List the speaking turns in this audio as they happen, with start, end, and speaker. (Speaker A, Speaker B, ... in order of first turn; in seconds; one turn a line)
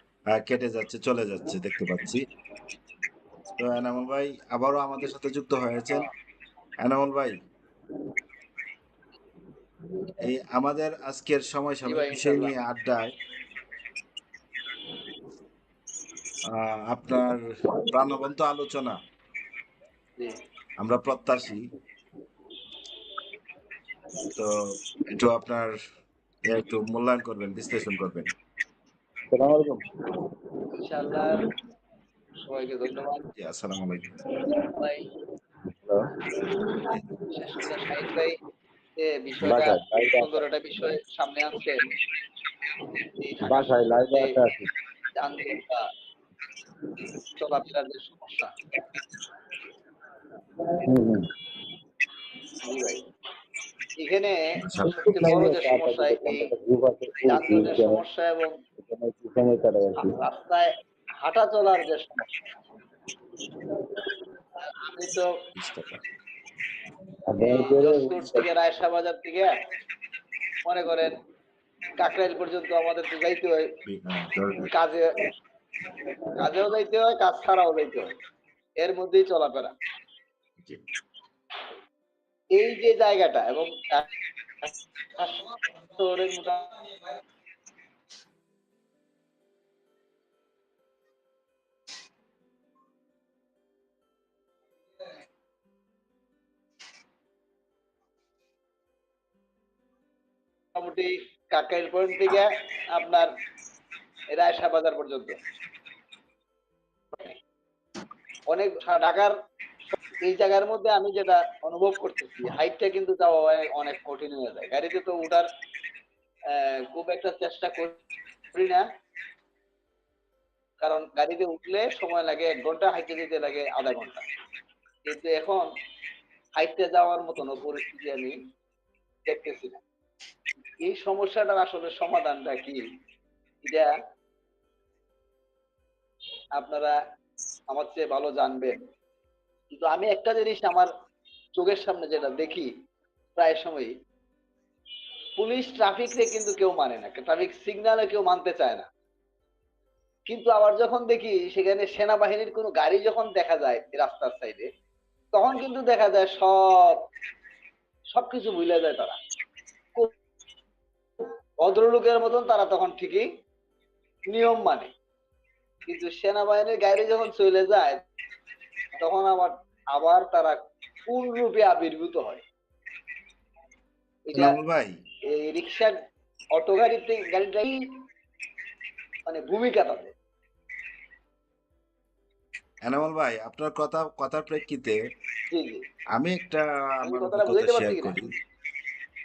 Speaker A: 0.3-2.2
Speaker A: 3.6-6.1
Speaker A: 6.8-7.4
Speaker A: 10.2-13.1
Speaker B: 11.8-12.5
Speaker A: 16.4-19.0
Speaker A: 20.8-21.7
Speaker A: 24.3-25.8
Speaker A: 26.4-28.3
Speaker C: 29.3-29.8
Speaker B: 30.7-31.5
Speaker B: 32.4-33.3
Speaker A: 33.4-34.1
Speaker B: 34.7-35.1
Speaker C: 35.7-36.1
Speaker B: 37.3-38.4
Speaker B: 39.0-41.9
Speaker C: 39.4-40.4
Speaker B: 42.8-44.4
Speaker C: 43.5-44.7
Speaker B: 45.1-45.9
Speaker B: 47.4-48.5
Speaker C: 50.8-51.3
Speaker B: 52.6-53.1
Speaker B: 54.0-56.4
Speaker A: 54.6-55.1
Speaker C: 54.8-58.0
Speaker B: 57.2-58.6
Speaker C: 58.8-60.1
Speaker B: 60.1-60.7
Speaker B: 61.2-62.3
Speaker B: 64.7-65.3
Speaker A: 65.5-66.0
Speaker C: 67.3-68.5
Speaker B: 67.4-69.5
Speaker B: 70.6-71.1
Speaker B: 72.0-73.7
Speaker A: 73.9-74.7
Speaker B: 74.7-75.2
Speaker B: 76.4-78.1
Speaker B: 78.8-79.7
Speaker B: 82.5-84.1
Speaker B: 84.6-86.8
Speaker B: 100.8-103.3
Speaker B: 104.3-105.4
Speaker B: 108.5-109.3
Speaker B: 110.2-115.5
Speaker B: 116.5-118.0
Speaker B: 118.5-118.8
Speaker B: 120.8-124.2
Speaker B: 125.0-125.7
Speaker B: 126.6-128.4
Speaker B: 129.2-129.8
Speaker B: 130.8-132.8
Speaker B: 133.6-133.9
Speaker B: 136.6-136.9
Speaker B: 137.7-138.8
Speaker B: 139.7-140.9
Speaker B: 141.5-142.7
Speaker B: 143.3-143.9
Speaker B: 145.4-148.9
Speaker B: 150.3-154.7
Speaker B: 155.3-157.0
Speaker B: 158.1-159.2
Speaker B: 161.2-163.2
Speaker B: 164.3-164.9
Speaker B: 165.9-168.0
Speaker B: 168.9-172.4
Speaker B: 174.3-174.5
Speaker A: 174.3-175.0
Speaker B: 175.3-175.9
Speaker B: 176.5-177.8
Speaker B: 179.2-180.1
Speaker A: 182.8-185.0
Speaker B: 185.5-185.8
Speaker A: 186.1-188.3
Speaker B: 187.0-188.1